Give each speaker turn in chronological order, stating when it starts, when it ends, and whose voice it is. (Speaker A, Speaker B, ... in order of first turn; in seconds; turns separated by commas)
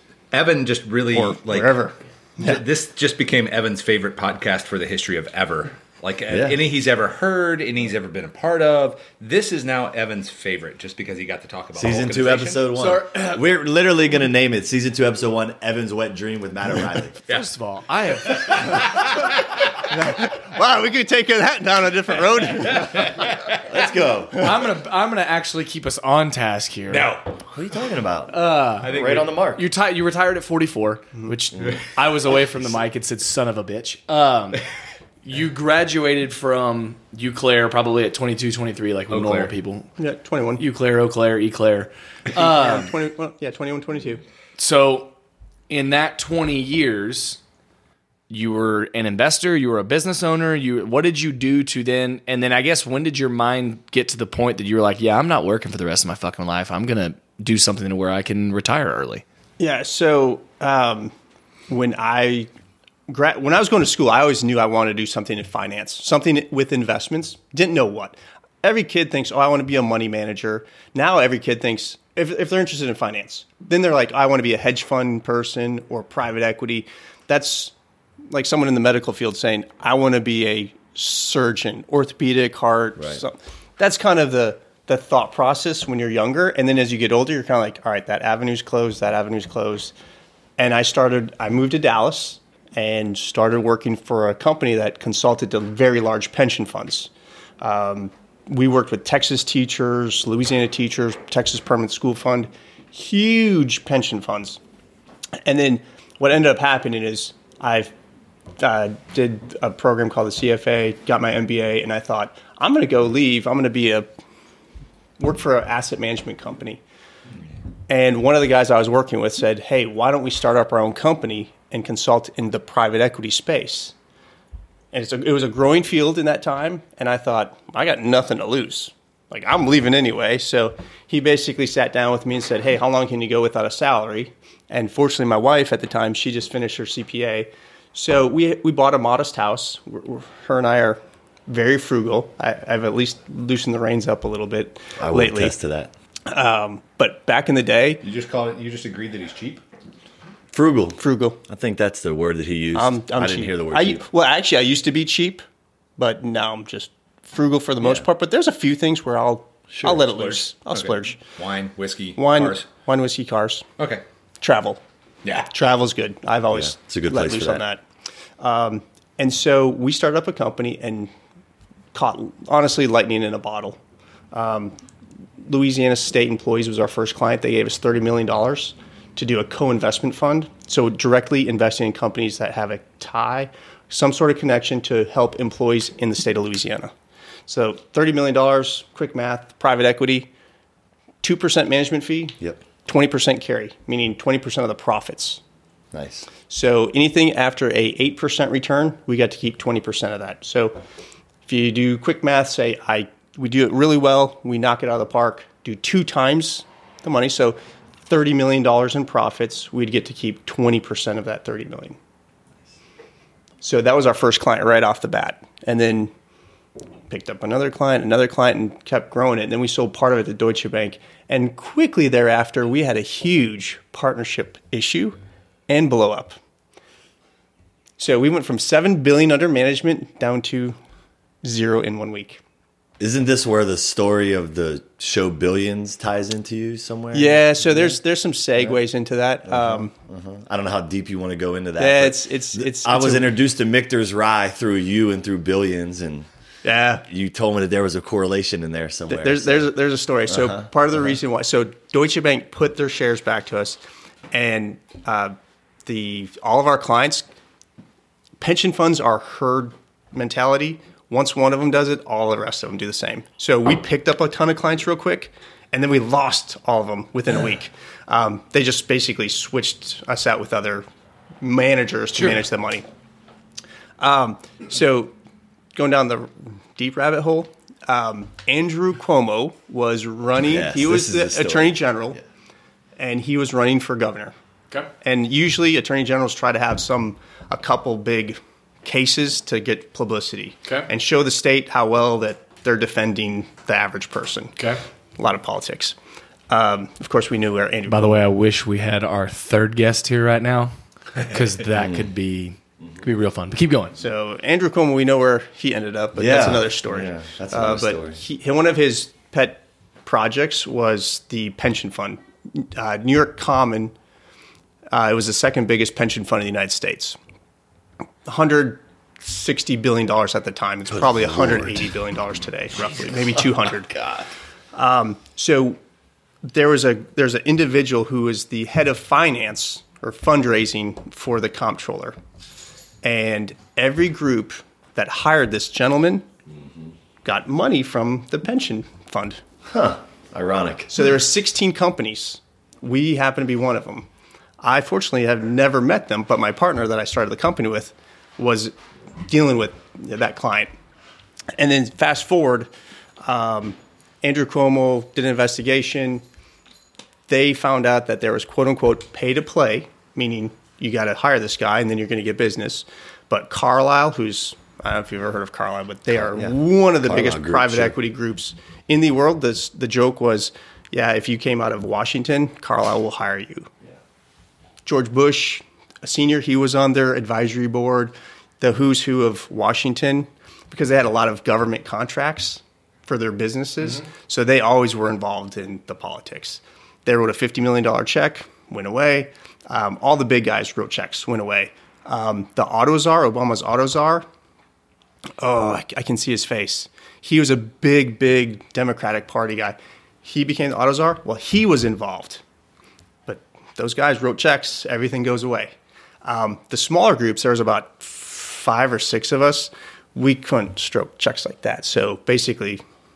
Speaker A: 0.3-1.8, Speaker B: 1.1-2.6, Speaker A: 2.4-12.6, Speaker C: 6.3-6.6, Speaker C: 11.7-17.2, Speaker D: 12.8-13.4, Speaker D: 17.3-19.0, Speaker A: 18.2-19.7, Speaker B: 19.8-23.3, Speaker A: 23.1-23.6, Speaker C: 23.6-24.5, Speaker D: 24.3-27.1, Speaker A: 26.9-27.4, Speaker C: 27.5-29.6, Speaker D: 28.3-34.6, Speaker A: 28.8-29.3, Speaker C: 31.5-31.8, Speaker D: 35.2-39.9, Speaker A: 39.1-39.5, Speaker B: 40.0-40.6, Speaker D: 40.6-42.9, Speaker B: 42.3-44.2, Speaker D: 44.6-45.1, Speaker D: 45.7-47.4, Speaker D: 48.3-59.2, Speaker B: 59.6-61.1, Speaker B: 61.7-62.5, Speaker B: 63.1-77.7, Speaker B: 78.3-89.9, Speaker C: 83.0-83.2, Speaker B: 90.6-104.6, Speaker B: 105.4-107.9, Speaker B: 108.6-114.1, Speaker B: 115.2-116.8, Speaker B: 117.9-123.9, Speaker B: 124.9-145.5, Speaker C: 145.0-145.9, Speaker B: 146.2-148.0, Speaker A: 148.0-149.6, Speaker C: 150.5-154.0, Speaker B: 151.0-151.4, Speaker B: 152.7-155.4, Speaker B: 156.0-161.2, Speaker C: 159.8-160.0, Speaker A: 160.0-162.6, Speaker B: 162.2-163.7, Speaker A: 163.8-164.0, Speaker B: 164.4-164.8, Speaker A: 165.2-165.5, Speaker B: 165.5-167.8, Speaker C: 166.5-167.6, Speaker B: 168.4-171.1, Speaker B: 171.9-173.8, Speaker B: 174.3-174.7, Speaker B: 175.4-186.9, Speaker B: 187.5-190.3, Speaker B: 191.2-195.4, Speaker C: 195.9-196.3, Speaker B: 196.5-200.8, Speaker B: 201.4-212.0, Speaker B: 213.6-216.1, Speaker B: 217.1-226.4, Speaker B: 228.0-230.8, Speaker B: 231.4-232.4, Speaker C: 233.0-238.0, Speaker B: 237.1-239.9, Speaker C: 239.4-246.3, Speaker B: 241.8-243.3, Speaker B: 246.6-247.0, Speaker C: 247.1-249.7, Speaker B: 249.1-253.8, Speaker C: 250.3-251.1, Speaker B: 254.3-257.2, Speaker B: 258.4-270.9, Speaker B: 271.4-272.9, Speaker B: 274.0-275.1, Speaker B: 275.7-282.2, Speaker C: 280.4-282.2, Speaker B: 283.0-284.3, Speaker B: 285.0-294.5, Speaker B: 295.2-295.9, Speaker B: 296.5-298.2, Speaker D: 297.9-304.0, Speaker B: 304.0-313.9, Speaker C: 306.1-308.2, Speaker B: 314.9-317.2, Speaker B: 318.2-324.0, Speaker C: 320.9-321.9, Speaker B: 324.7-325.8, Speaker B: 326.4-332.2, Speaker B: 333.0-336.2, Speaker B: 337.2-339.4, Speaker C: 339.7-340.9, Speaker B: 340.9-344.1, Speaker B: 344.6-348.7, Speaker B: 349.2-350.7, Speaker B: 351.5-352.7, Speaker B: 353.2-356.2, Speaker B: 357.3-373.7, Speaker C: 366.1-367.9, Speaker B: 374.9-394.2, Speaker B: 395.4-402.4, Speaker B: 403.3-405.7, Speaker B: 406.2-412.8